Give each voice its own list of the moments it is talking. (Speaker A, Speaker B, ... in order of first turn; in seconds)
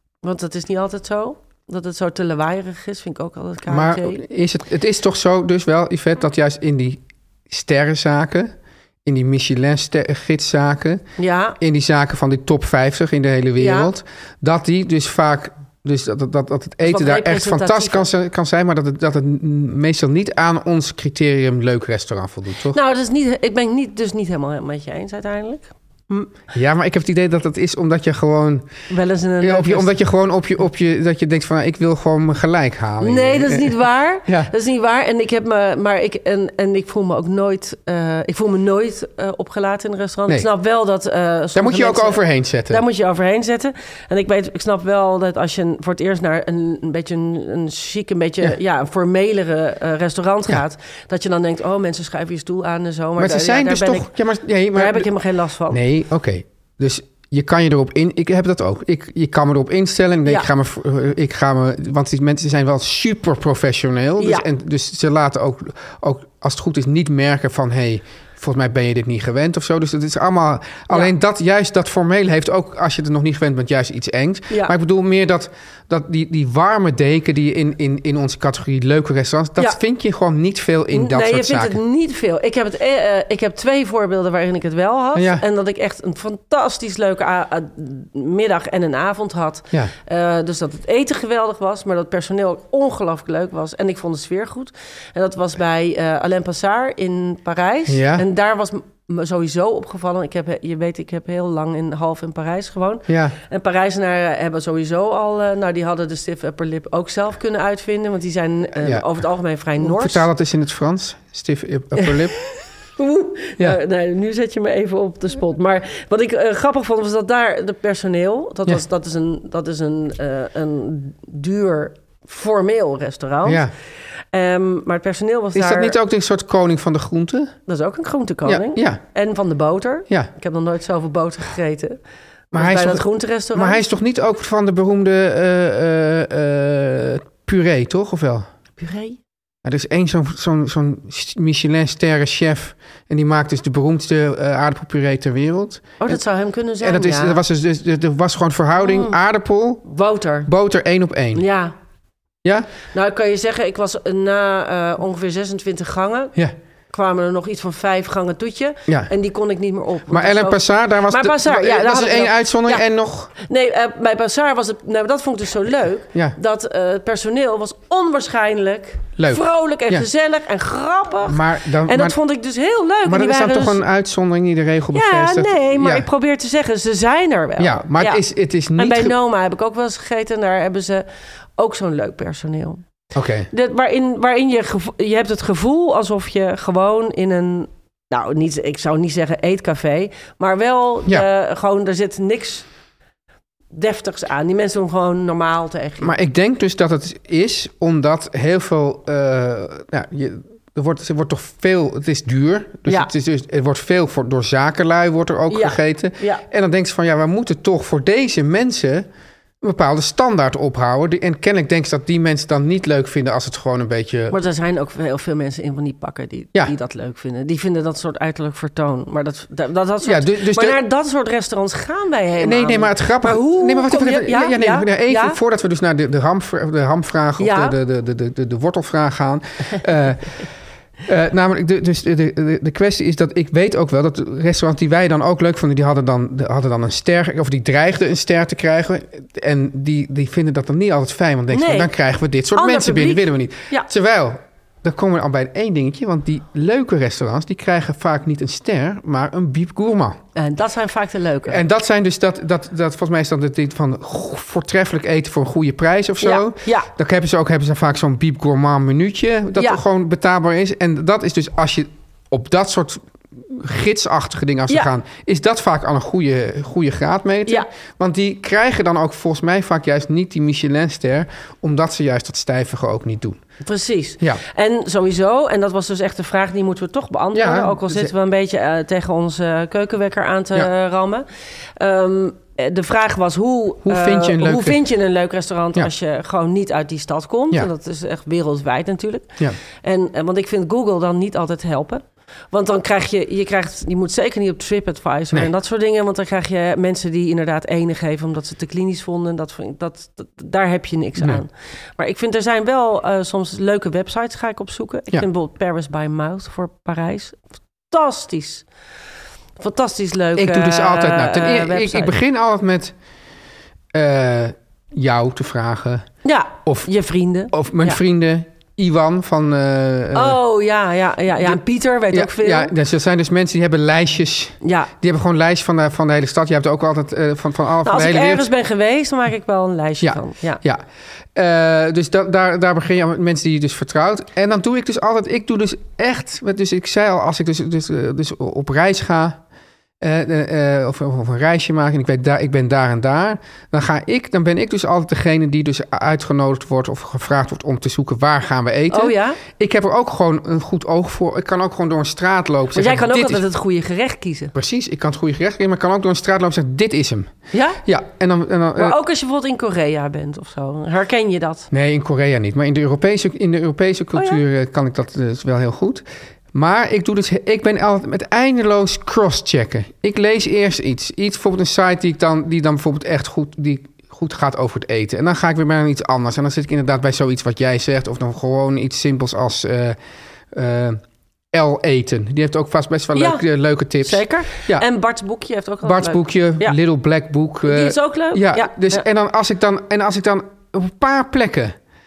Speaker A: 0.2-4.2, 11.2-11.6, 13.6-13.9, 16.8-18.1, 22.7-26.3, 28.9-29.9, 33.0-54.1, 54.7-55.8, 64.2-64.5, 80.9-110.3, 113.0-123.7, 124.3-126.0, 127.7-132.0, 132.5-133.8, 138.8-139.2, 146.0-147.4, 148.8-149.2, 149.8-150.5, 151.3-151.7, 152.9-156.3, 156.9-173.8, 174.9-178.2, 178.8-181.0, 181.6-182.8, 183.5-192.7, 193.7-196.1, 205.5-206.4, 214.3-225.4, 227.4-227.8, 241.5-241.9, 242.5-243.9, 250.3-251.6, 256.2-256.9, 259.6-259.8, 273.6-281.2, 281.8-307.4, 307.9-308.6, 309.6-312.2, 316.2-318.0, 320.1-322.7, 324.6-324.9, 327.8-330.6, 348.9-349.4, 352.7-354.5, 357.5-357.8, 358.8-361.7, 364.1-364.4, 383.1-383.4, 384.0-386.8, 387.6-389.0
Speaker B: 3.7-11.0, 11.6-22.8, 26.5-28.7, 29.4-34.5, 41.5-42.8, 53.2-55.1, 55.7-81.8, 85.1-85.4, 97.9-98.2, 103.1-103.3, 108.8-109.0, 109.8-112.3, 123.4-123.7, 125.5-127.5, 128.4-129.0, 132.5-138.5, 139.6-146.2, 146.8-149.8, 150.4-151.4, 152.4-152.7, 160.1-163.3, 169.2-170.1, 171.2-172.2, 173.0-176.1, 177.6-179.1, 183.1-183.5, 196.0-209.1, 209.6-214.4, 220.0-220.8, 222.4-230.4, 231.1-250.2, 251.5-273.4, 277.3-278.1, 283.8-284.8, 301.2-301.4, 310.3-312.9, 313.9-316.1, 317.5-320.4, 322.1-328.5, 330.0-330.8, 331.3-339.4, 340.0-353.4, 354.5-357.3, 357.8-359.0, 361.7-380.0, 380.5-381.0, 381.5-384.9, 385.8-391.8